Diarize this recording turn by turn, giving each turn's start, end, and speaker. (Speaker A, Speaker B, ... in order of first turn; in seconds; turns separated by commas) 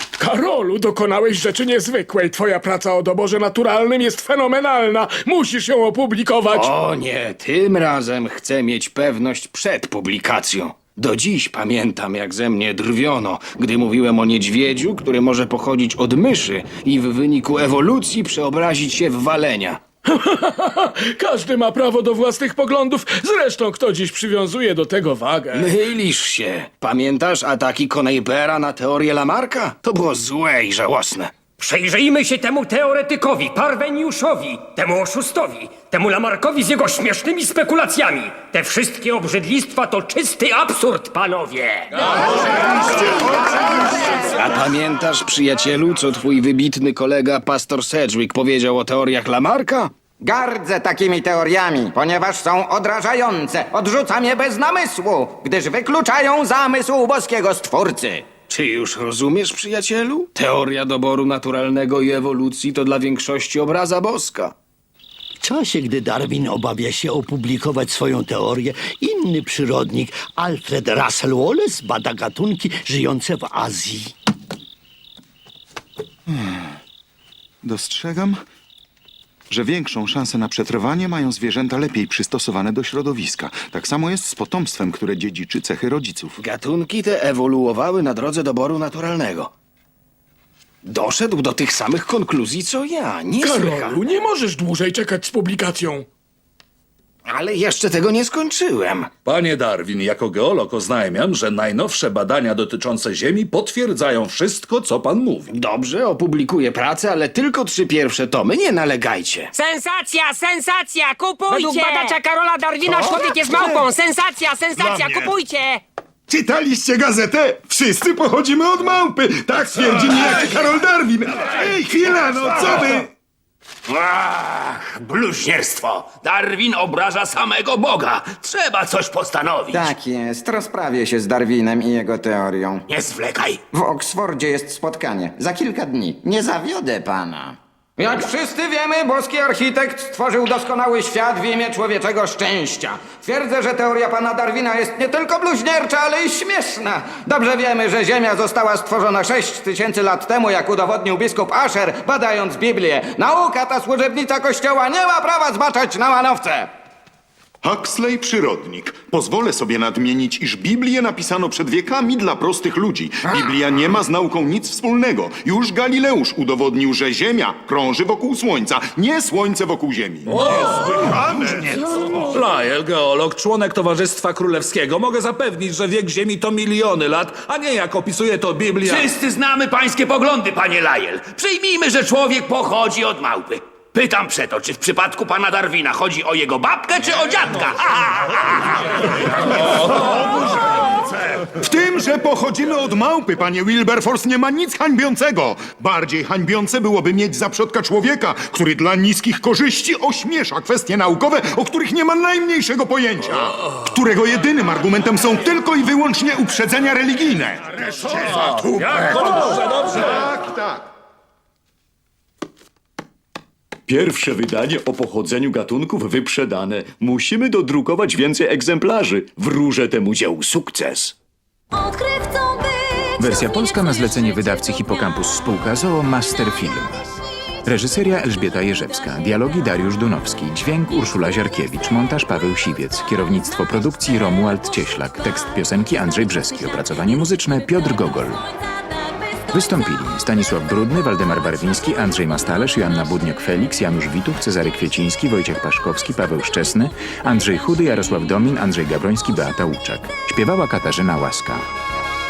Speaker A: 0.2-6.7, Speaker B: 6.5-19.8, Speaker A: 20.1-25.8, Speaker B: 25.5-31.3, Speaker C: 31.6-42.1, Speaker B: 44.2-49.9, Speaker D: 50.2-58.3, Speaker B: 58.5-64.5, Speaker E: 65.4-74.2, Speaker F: 76.3-76.8, Speaker F: 77.6-78.4, Speaker F: 79.5-86.4, Speaker B: 86.4-89.5, Speaker B: 90.8-94.0, Speaker A: 93.4-96.1, Speaker B: 97.3-99.1, Speaker G: 99.2-105.5, Speaker B: 105.5-109.5, Speaker C: 109.5-115.8, Speaker F: 114.8-115.2, Speaker F: 116.3-123.1, Speaker H: 123.9-129.9, Speaker D: 129.7-132.8, Speaker H: 132.9-133.6, Speaker D: 133.7-156.7, Speaker F: 157.6-171.6, Speaker G: 170.3-171.6, Speaker G: 172.2-179.1, Speaker H: 178.8-189.2, Speaker F: 190.1-190.5, Speaker F: 191.5-209.0, Speaker G: 208.0-210.3, Speaker F: 210.4-210.8, Speaker I: 213.9-221.1, Speaker J: 221.7-225.4, Speaker K: 223.2-238.4, Speaker J: 228.7-229.4, Speaker J: 234.9-240.2, Speaker K: 239.5-251.7, Speaker J: 242.0-243.6